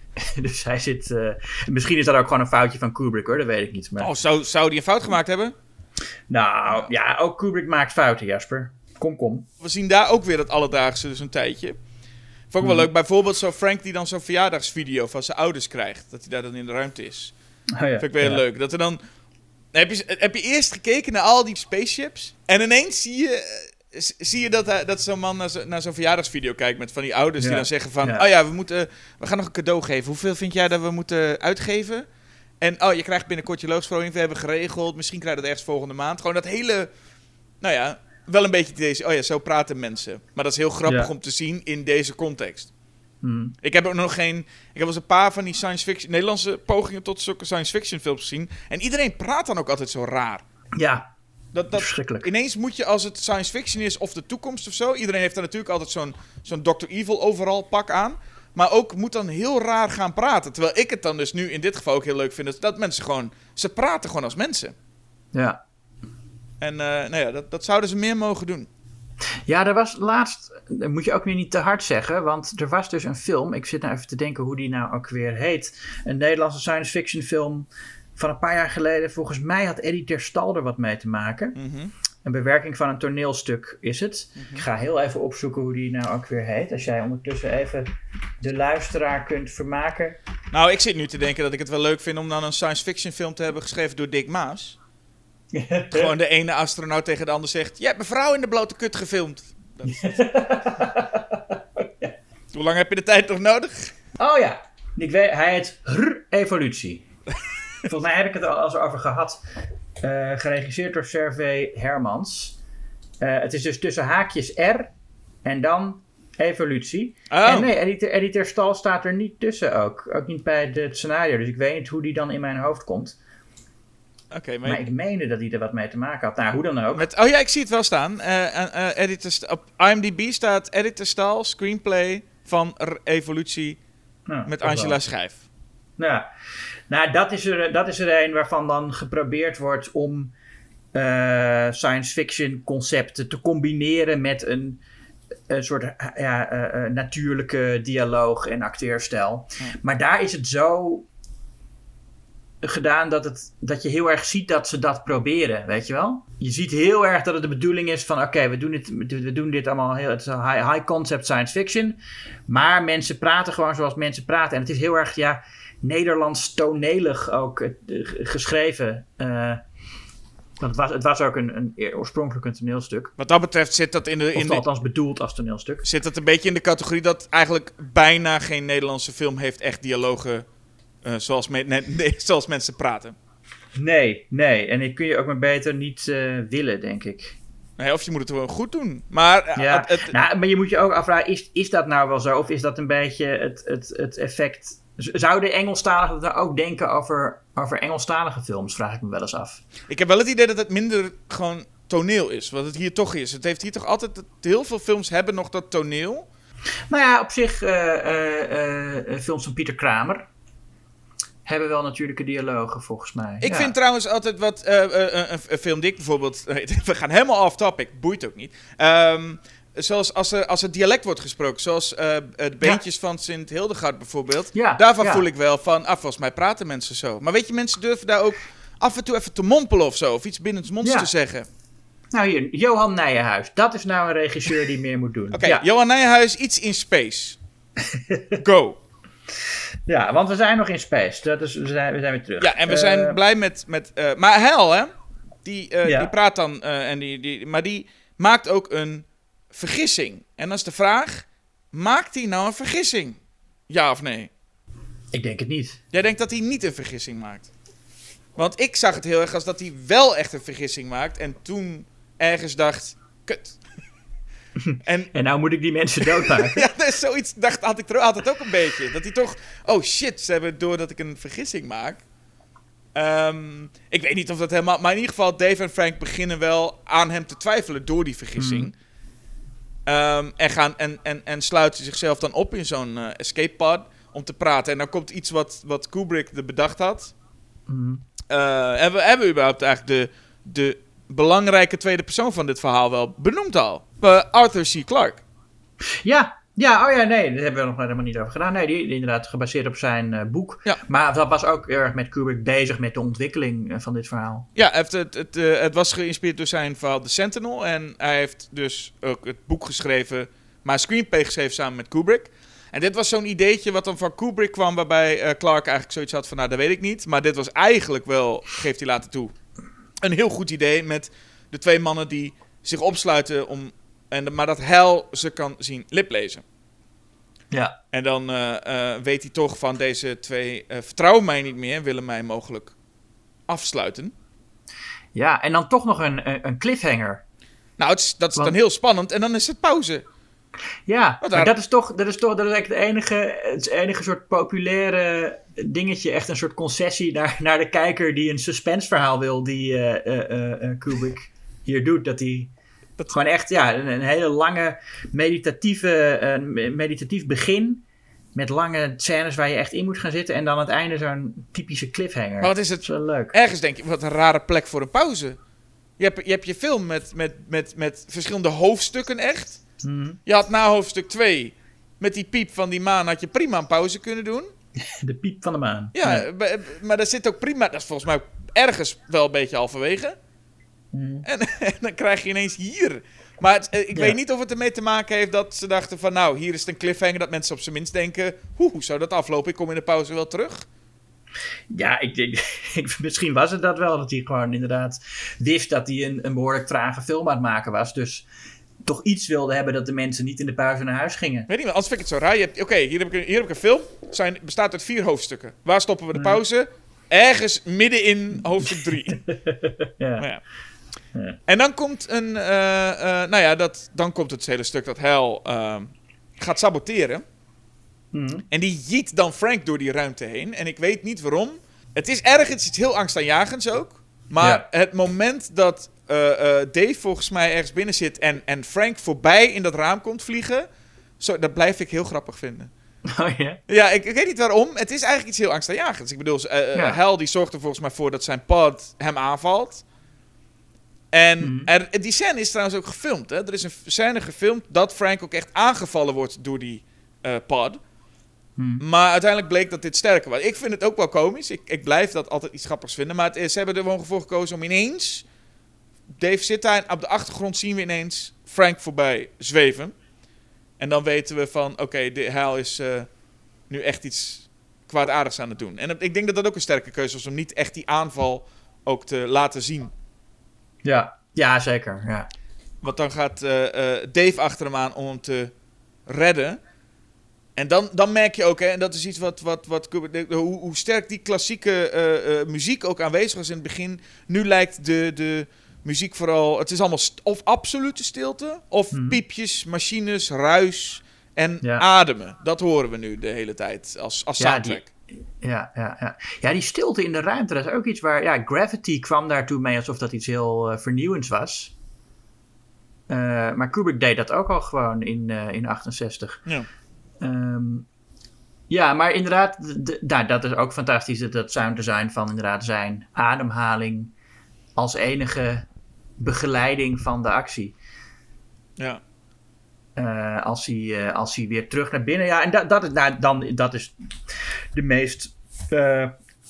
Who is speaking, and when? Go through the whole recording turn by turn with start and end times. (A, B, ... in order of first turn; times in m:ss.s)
0:00.2-0:04.1 A
0:04.0-0:05.5 B
0:06.3-0:09.4 A
0:09.6-0:11.8 B
0:12.5-0:17.3 B
0:17.7-0:18.4 A
0:18.0-0:19.0 B
0:19.7-0:32.0 B
0:27.4-0:28.2 A
0:32.6-0:36.9 B
0:37.6-0:42.7 B
0:43.2-0:43.5 A
0:43.6-0:50.4 B
0:50.7-0:51.1 A
0:51.5-1:04.7 B
0:51.7-0:52.3 A
1:05.3-1:05.6 A
1:06.6-1:08.7 B
1:09.5-1:21.6 A
1:21.5-1:21.9 B
1:22.2-1:30.2 A
1:24.4-1:24.6 B
1:30.5-1:34.8 B
1:35.5-1:36.1 A
1:35.9-1:40.1 B
1:39.9-1:42.1 A
1:42.5-1:43.9 B
1:44.2-1:47.0 A
1:47.8-1:49.4 A
1:50.0-1:52.6 A
1:53.2-1:54.9 A
1:55.4-2:03.2 A
1:57.3-1:57.7 B
2:04.3-2:04.8 B
2:04.6-2:07.1 A
2:06.9-2:13.8 B
2:14.3-2:15.0 A
2:14.4-2:15.4 B
2:16.0-2:16.3 A
2:16.9-2:20.3 A
2:20.9-2:24.8 A
2:25.5-2:31.0 A
2:32.6-2:49.6 A
2:50.6-2:53.1 A
2:53.2-2:54.6 B
2:54.3-2:55.8 A
2:55.8-3:00.4 B
3:01.0-3:03.2 B
3:03.8-3:07.4 A
3:07.8-3:10.1 B
3:09.5-3:19.6 A
3:19.9-3:26.2 B
3:26.9-3:30.3 A
3:31.4-3:33.7 A
3:33.4-3:51.5 B
3:44.5-3:45.2 A
3:50.8-3:51.1 A
3:52.1-3:55.6 A
3:55.3-3:57.4 B
3:57.9-3:58.4 A
3:58.4-3:58.8 B
3:59.9-4:03.2 A
4:02.4-4:04.9 B
4:05.4-4:13.2 B
4:05.8-4:06.1 A
4:13.7-4:14.3 B
4:15.1-4:15.8 A
4:15.9-4:17.5 B
4:18.4-4:23.6 B
4:24.6-4:26.6 A
4:24.8-4:25.1 B
4:26.0-4:32.0 B
4:32.9-4:38.7 B
4:38.4-4:38.7 A
4:39.8-4:47.1 B
4:47.7-4:48.0 A
4:48.3-4:55.2 B
4:55.9-5:04.5 A
5:04.5-5:19.3 B
5:20.0-5:26.4 B
5:27.5-5:27.8 A
5:27.9-5:32.7 B
5:33.5-5:34.1 B
5:35.1-5:37.2 A
5:37.8-5:40.0 B
5:40.9-5:52.5 A
5:41.2-5:41.5 B
5:53.1-5:57.8 A
5:58.3-6:03.3 A
6:02.4-6:05.4 B
6:06.0-6:09.6 B
6:09.8-6:10.2 A
6:10.2-6:14.5 B
6:14.8-6:16.2 A
6:15.9-6:20.2 B
6:20.9-6:21.2 A
6:21.2-6:30.6 B
6:31.7-6:38.2 A
6:38.8-6:41.5 A
6:41.5-6:49.2 B
6:46.1-6:46.4 A
6:49.2-6:50.3 A
6:51.5-6:57.2 B
6:58.1-6:58.4 A
6:58.5-7:10.7 B
7:11.2-7:12.7 B
7:13.0-7:13.6 A
7:13.7-7:19.8 B
7:16.7-7:17.0 A
7:21.1-7:27.8 B
7:21.4-7:21.7 A
7:28.6-7:28.8 A
7:28.8-7:35.2 B
7:36.2-7:40.0 B
7:40.8-7:43.1 B
7:43.7-7:49.9 B
7:50.8-7:52.3 A
7:52.8-7:55.5 B
7:56.0-7:56.6 B
7:57.6-8:14.9 B
8:08.9-8:09.2 A
8:14.4-8:14.8 A
8:15.4-8:21.7 A
8:23.1-8:26.4 A
8:27.2-8:27.9 A
8:28.7-8:34.1 A
8:34.8-8:35.6 A
8:36.2-8:37.7 A
8:40.0-8:43.9 A
8:44.7-8:46.1 A